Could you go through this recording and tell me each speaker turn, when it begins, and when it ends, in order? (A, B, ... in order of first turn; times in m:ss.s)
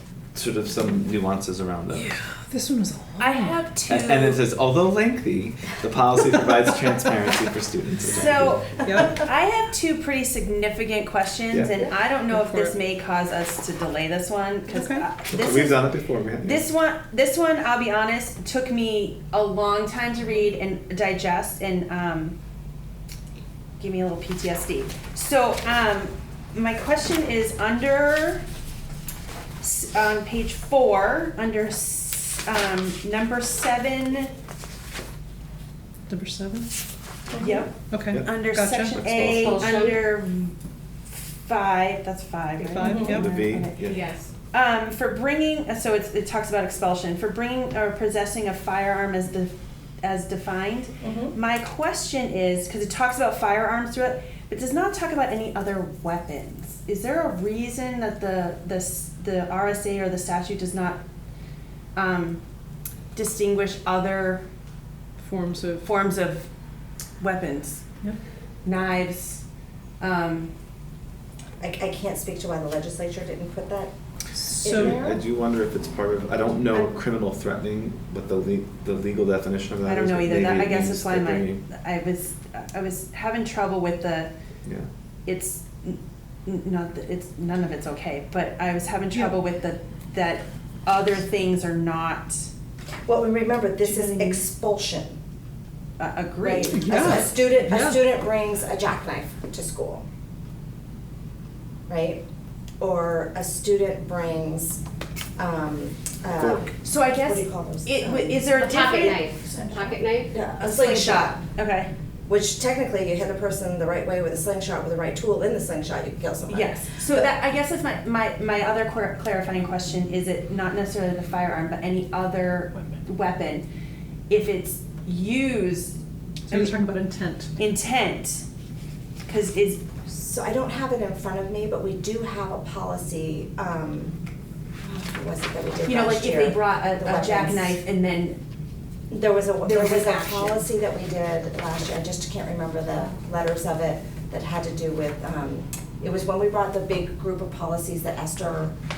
0:00.3-0:02.2 A
0:02.0-0:03.6 B
0:03.2-0:04.5 C
0:03.9-0:08.6 A
0:08.1-0:22.4 C
0:08.8-0:09.2 B
0:12.3-0:12.8 B
0:14.7-0:15.1 B
0:15.3-0:16.7 A
0:23.8-0:28.4 C
0:29.6-0:34.3 C
0:36.1-0:36.7 B
0:37.3-0:37.7 D
0:37.4-0:40.6 C
0:37.9-0:39.0 B
0:38.1-0:38.4 A
0:38.9-0:39.7 A
0:39.2-0:40.1 E
0:41.1-0:44.0 C
0:42.6-0:43.3 B
0:42.8-0:43.3 D
0:43.1-0:44.0 A
0:43.8-0:44.3 E
0:44.5-1:01.0 C
0:51.0-0:51.4 D
1:02.0-1:02.4 C
1:03.1-1:04.4 C
1:05.2-1:05.9 B
1:05.8-1:06.5 C
1:07.2-1:07.8 C
1:08.6-1:09.4 C
1:10.0-1:10.5 C
1:11.6-1:13.9 D
1:14.6-1:15.2 D
1:14.6-1:15.0 B
1:14.6-1:21.6 A
1:19.8-1:24.3 C
1:25.3-1:32.5 C
1:33.1-1:35.2 D
1:33.8-1:34.4 C
1:36.0-1:37.0 C
1:36.4-1:40.0 D
1:36.7-1:38.0 B
1:41.9-1:42.2 D
1:42.8-1:44.8 D
1:45.4-1:51.4 D
1:46.4-1:46.7 A
1:46.8-1:49.3 C
1:48.6-1:50.6 E
1:50.6-1:51.9 C
1:52.3-1:57.3 D
1:56.5-2:03.7 C
2:04.3-2:06.0 C
2:06.5-2:07.5 B
2:06.5-2:06.8 C
2:07.6-2:08.4 C
2:09.2-2:09.8 C
2:10.1-2:14.2 D
2:14.8-2:17.8 D
2:15.9-2:18.4 C
2:19.1-2:28.7 D
2:19.6-2:20.6 C